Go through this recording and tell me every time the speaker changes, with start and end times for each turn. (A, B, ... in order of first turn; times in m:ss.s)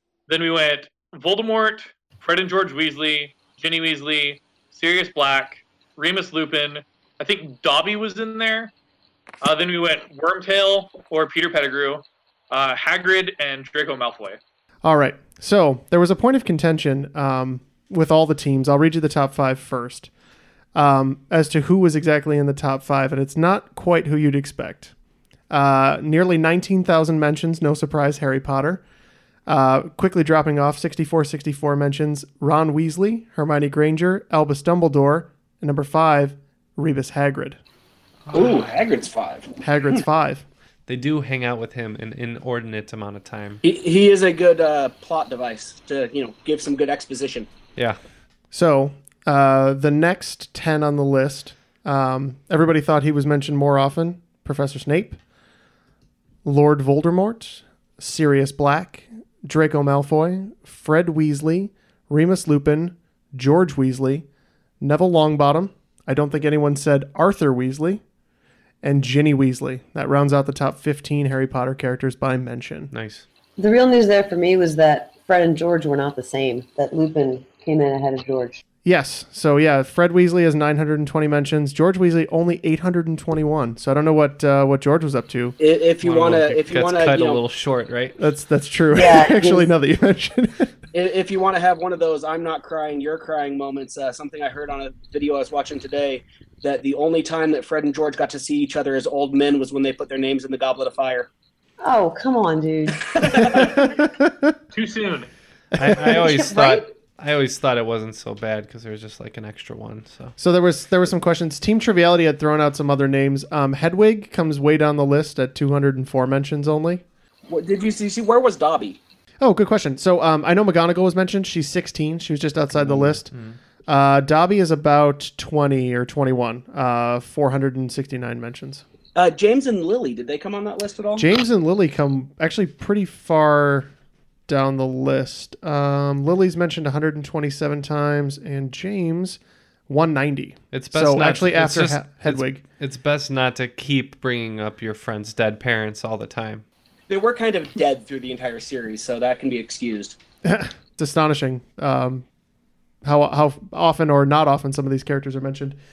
0:00.3-0:08.7 A
0:09.4-0:14.4 A
0:14.8-0:20.1 B
0:20.7-0:24.9 B
0:25.5-0:28.8 B
0:29.4-0:37.6 B
0:38.3-0:40.0 C
0:39.6-0:40.4 B
0:40.9-0:43.6 D
0:43.6-0:47.5 C
0:48.5-0:55.2 B
0:56.4-1:04.2 B
1:04.8-1:08.0 B
1:08.8-1:12.9 B
1:12.9-1:13.2 D
1:13.6-1:18.6 E
1:18.8-1:25.6 B
1:25.6-1:27.4 C
1:26.0-1:28.2 D
1:28.2-1:30.7 B
1:28.9-1:29.7 E
1:30.9-1:41.3 C
1:41.8-1:43.8 E
1:43.1-1:43.5 C
1:43.4-1:44.5 B
1:44.7-1:45.3 A
1:45.8-1:50.3 D
1:46.1-1:46.8 E
1:50.4-1:57.0 B
1:57.5-1:59.0 C
1:59.4-2:03.3 B
2:02.8-2:03.6 D
2:03.9-2:08.8 B
2:09.1-2:11.3 C
2:11.2-2:13.9 B
2:14.5-2:22.6 B
2:20.7-2:26.6 D
2:27.1-2:30.2 C
2:30.4-2:32.2 B
2:33.0-2:35.8 B